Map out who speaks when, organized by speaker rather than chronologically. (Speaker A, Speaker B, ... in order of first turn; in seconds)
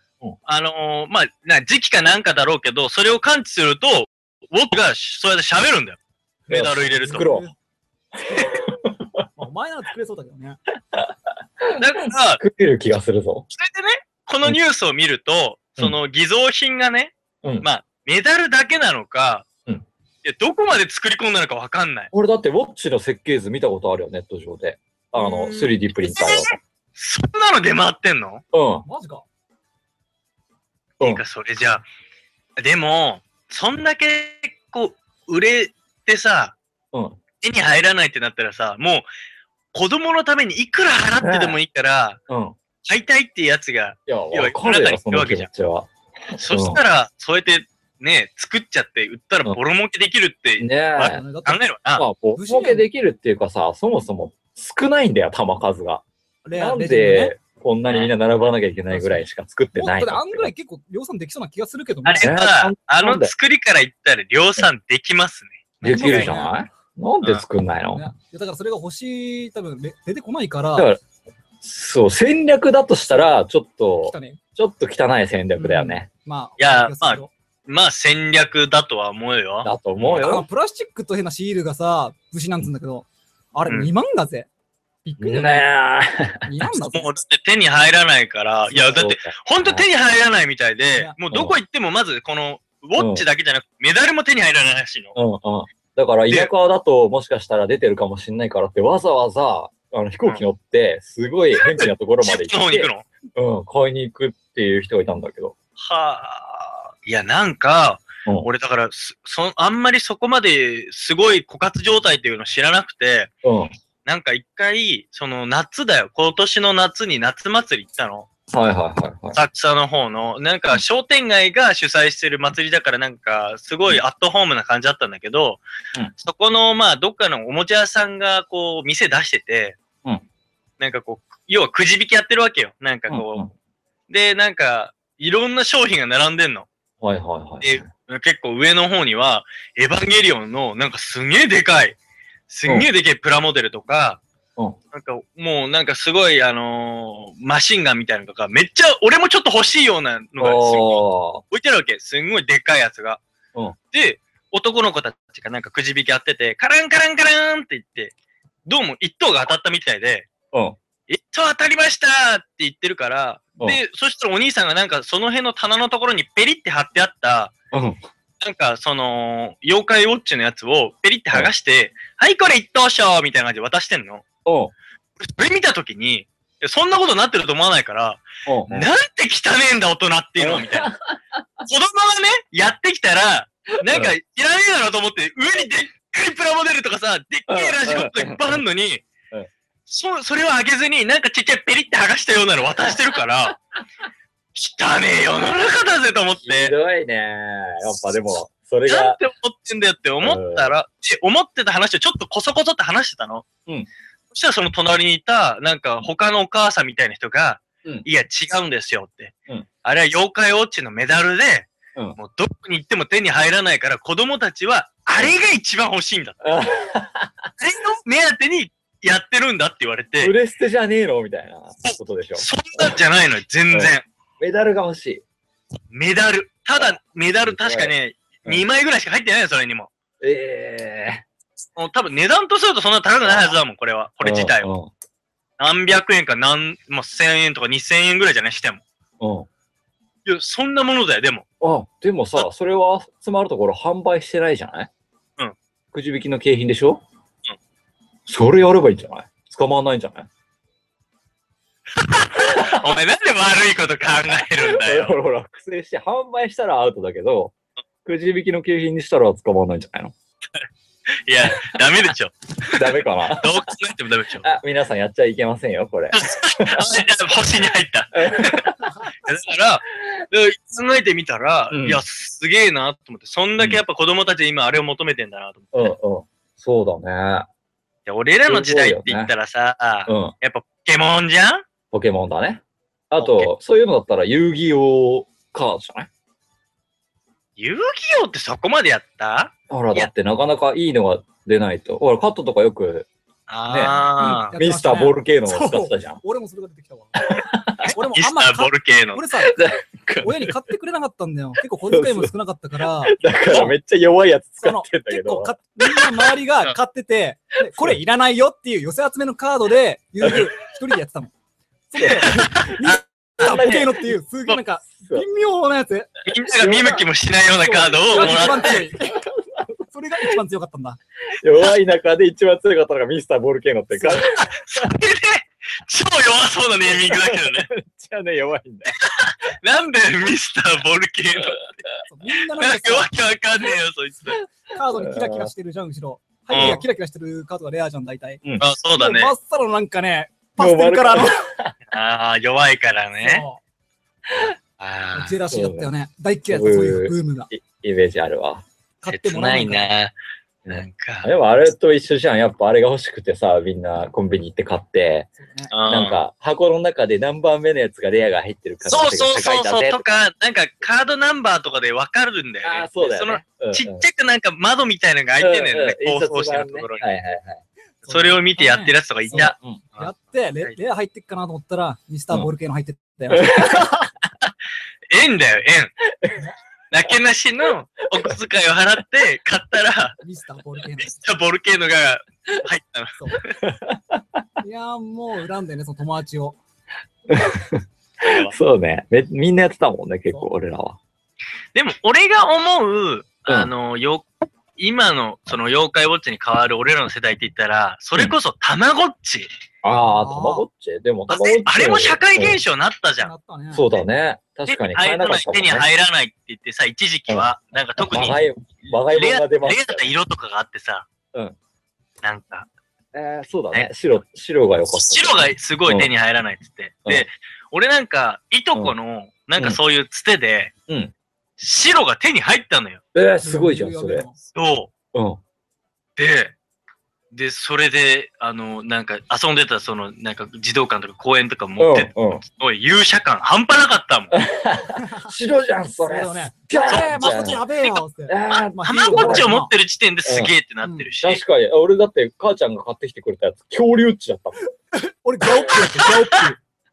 Speaker A: 0.5-6.0, 6.5-7.3, 11.8-12.4, 13.5-19.5, 20.2-22.1, 25.1-28.4, 31.0-31.9, 32.6-36.6, 37.4-39.1, 39.7-42.2, 42.9-45.5, 46.4-52.0, 62.0-66.4, 76.6-80.4, 86.9-95.2, 101.5-103.0, 105.8-113.3, 114.0-118.3, 119.3-125.6, 126.2-129.8, 130.8-133.4, 134.1-136.7, 137.6-142.0, 142.5-144.2, 144.9-153.2, 153.9-158.1, 158.7-160.3, 161.1-167.5, 168.4-174.2, 175.2-180.9, 181.6-189.0, 189.9-193.6, 194.6-196.7, 198.9-203.4, 204.3-209.3, 209.8-216.4, 217.6-220.3, 221.8-224.0, 225.9-229.9, 231.8-234.7, 235.6-238.8, 240.3-241.4, 252.0-255.2, 261.3-264.5, 266.1-275.9, 278.1-281.7, 283.2-283.5, 287.6-290.1, 293.5-294.6, 297.8-299.2, 312.0-312.9, 316.3-318.9, 324.2-327.7, 328.9-331.7, 332.6-334.4, 336.5-336.8, 338.6-339.3, 341.9-343.4, 344.8-345.4, 349.1-350.1, 350.7-351.3, 355.7-356.2, 358.9-367.1, 368.1-370.8, 375.1-376.0, 376.9-380.2, 381.0-383.5, 388.2-388.5, 391.7-394.3, 394.8-399.5, 401.3-403.3, 404.7-408.4, 409.1-411.1, 412.2-412.7, 414.9-420.7, 421.6-423.0, 424.5-424.9, 426.2-426.6, 427.3-434.4, 436.9-438.0, 438.9-441.4
Speaker B: 6.5-7.5, 8.2-9.2, 10.9-13.5, 22.1-26.6, 28.5-28.9, 36.9-37.2, 41.2-41.6, 42.3-42.6, 44.1-46.8, 50.6-51.2, 52.0-56.0, 56.6-60.5, 62.2-63.3, 65.8-68.1, 70.8-71.0, 71.6-76.1, 79.6-80.5, 85.2-86.5, 89.0-89.9, 91.3-91.6, 93.0-93.2, 95.2-105.5, 113.4-113.7, 118.5-119.4, 133.1-133.5, 137.0-137.9, 150.4-151.4, 160.5-160.8, 167.7-168.0, 174.5-174.7, 178.5-178.9, 180.4-181.4, 183.8-184.1, 187.5-188.6, 196.5-199.2, 200.2-200.7, 216.4-217.5, 220.2-223.0, 223.7-225.2, 226.8-227.9, 230.2-231.2, 233.2-233.6, 234.2-234.9, 239.2-239.5, 241.6-244.9, 245.9-247.0, 248.3-250.3, 252.4-252.8, 254.1-260.1, 261.5-261.8, 262.7-263.7, 264.4-266.9, 268.1-268.9, 271.7-272.0, 275.7-277.5, 278.5-279.3, 280.1-280.3, 281.9-286.1, 289.7-293.1, 293.7-296.2, 297.2-297.9, 299.4-300.6, 301.9-302.3, 303.0-306.2, 307.7-308.0, 310.2-310.5, 312.0-312.4, 313.4-314.1, 315.0-315.3, 316.5-317.1, 317.6-319.9, 321.3-324.9, 326.9-328.9, 334.3-335.5, 336.5-336.8, 340.6-341.8, 344.3-344.6, 345.5-345.9, 346.5-348.7, 350.6-355.3, 355.9-360.1, 362.6-364.0, 365.4-367.6, 369.3-369.8, 373.3-374.0, 376.1-376.5, 383.6-384.4, 387.3-391.0, 399.8-402.6, 403.7-405.9, 408.0-410.1, 413.1-416.1, 420.9-421.1, 423.1-424.3, 425.1-425.4, 431.8-432.4, 434.3-437.6, 438.3-439.6, 440.2-440.5, 441.2-444.6
Speaker C: 7.0-7.5, 9.4-10.6, 28.9-29.2, 51.0-51.6, 52.4-52.9, 56.5-57.3, 58.9-62.3, 65.8-66.5, 67.9-70.9, 74.1-74.4, 75.6-77.3, 80.2-84.5, 85.0-85.7, 86.5-87.1, 88.7-89.1, 294.2-299.6, 300.2-303.7, 304.6-311.3, 311.9-316.1, 318.0-319.2, 319.9-321.0, 332.1-333.1, 334.7-338.4, 339.0-341.5, 343.2-343.6, 345.1-347.5, 349.0-349.9, 355.4-355.7, 368.1-374.1, 380.2-381.2, 384.6-386.6, 400.1-400.7, 403.2-404.0, 423.4-424.4, 435.0-435.3, 436.1-439.7, 440.8-441.1, 444.9-446.6